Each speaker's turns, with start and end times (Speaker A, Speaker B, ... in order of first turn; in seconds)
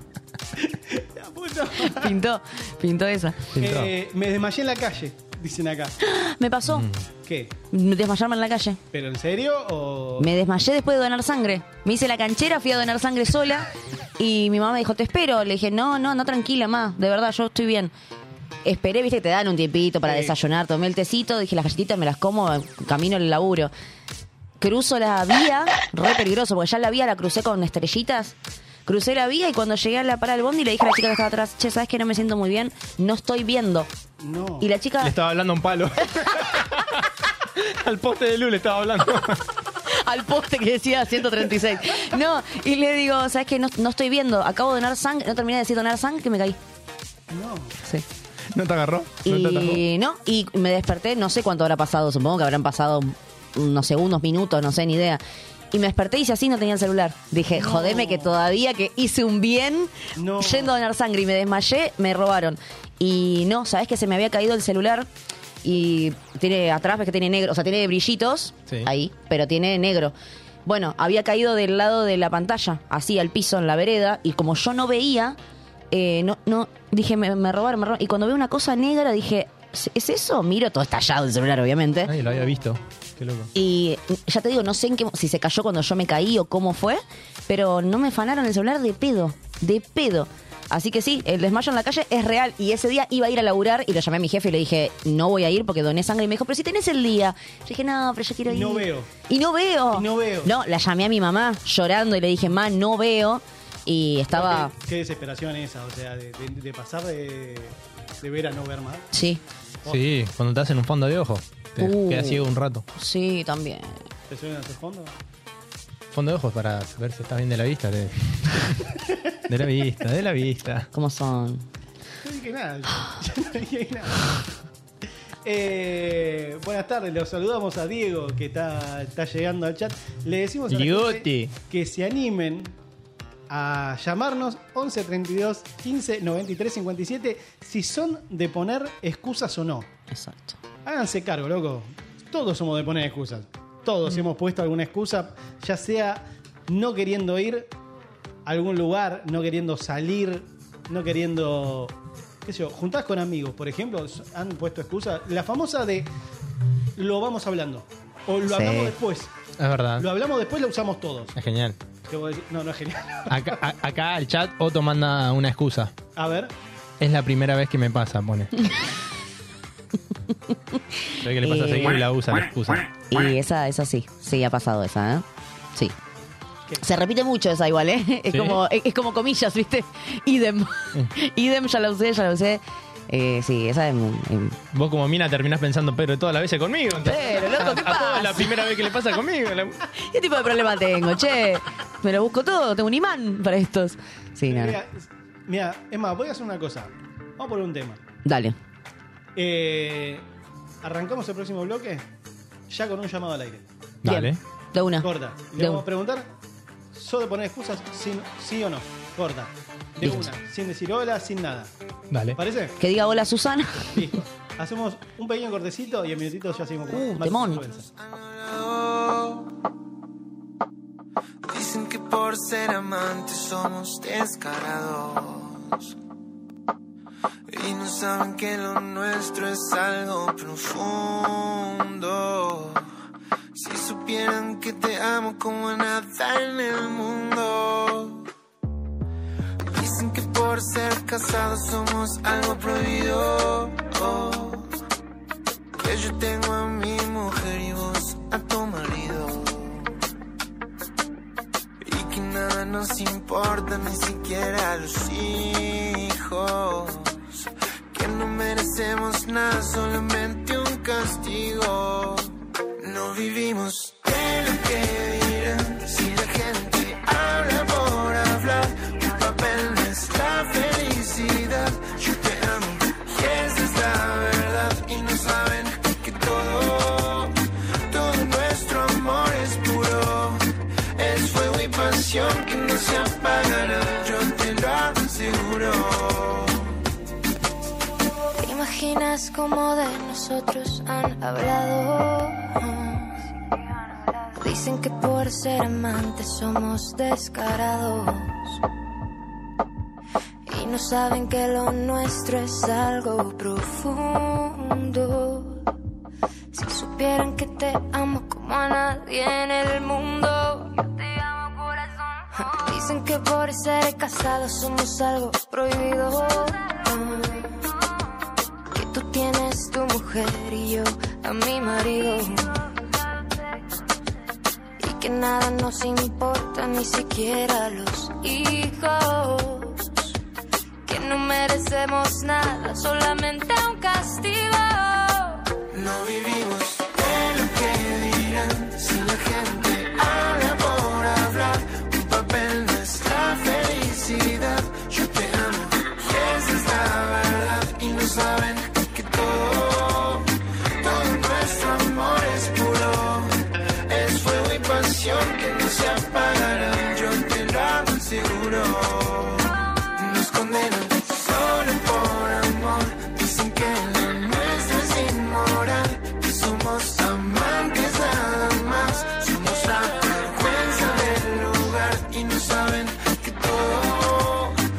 Speaker A: 0.5-2.2, 3.6-5.9, 7.2-7.5, 8.9-10.3, 20.0-20.4, 34.2-34.7, 47.3-47.8, 57.5-58.3, 60.1-60.7, 82.3-82.6, 98.5-99.1, 99.9-100.5, 104.3-109.1, 114.3-115.1, 122.2-124.3, 125.4-132.8, 133.5-139.9, 140.8-147.7, 148.4-156.1, 156.9-159.3, 160.0-161.3, 162.1-163.6, 166.1-166.5, 194.4-198.0, 199.3-200.3, 200.8-202.1, 202.7-203.7, 205.0-206.3, 206.9-211.7, 212.3-212.8, 213.9-217.9
Speaker B: 1.8-3.5, 6.0-6.9, 7.7-8.8, 10.2-17.9, 18.6-23.7, 24.6-33.9, 34.6-35.1, 39.9-46.6, 49.2-55.2, 55.7-65.1, 65.6-70.1, 70.7-75.4, 75.9-82.1, 83.5-104.7, 109.1-109.4, 111.8-114.0, 120.9-121.7, 140.1-140.6, 158.5-158.9, 171.4-172.0, 173.1-175.9, 176.8-184.6, 187.0-188.9, 190.0-194.8, 198.2-198.6, 204.0-205.8, 212.8-214.1, 216.9-217.6
Speaker C: 3.5-3.9, 6.7-7.0, 35.0-39.4, 48.5-49.8, 82.0-83.5, 109.8-112.8, 116.1-118.9, 119.5-120.9, 130.7-131.5, 159.6-160.0, 161.3-161.8, 163.3-165.9, 167.0-168.5, 171.2-172.9, 178.3-178.6, 184.7-189.8, 204.0-204.4, 212.1-212.4
Speaker D: 217.9-219.5, 221.4-225.9, 227.5-232.9, 233.5-238.3, 239.7-244.7, 245.8-249.9, 251.8-277.3, 277.9-280.4, 280.9-286.7, 335.7-350.3, 350.8-374.6
Speaker E: 288.4-293.3, 294.3-298.6, 300.4-305.6, 306.5-317.7, 318.7-322.6, 324.8-330.1, 330.8-335.4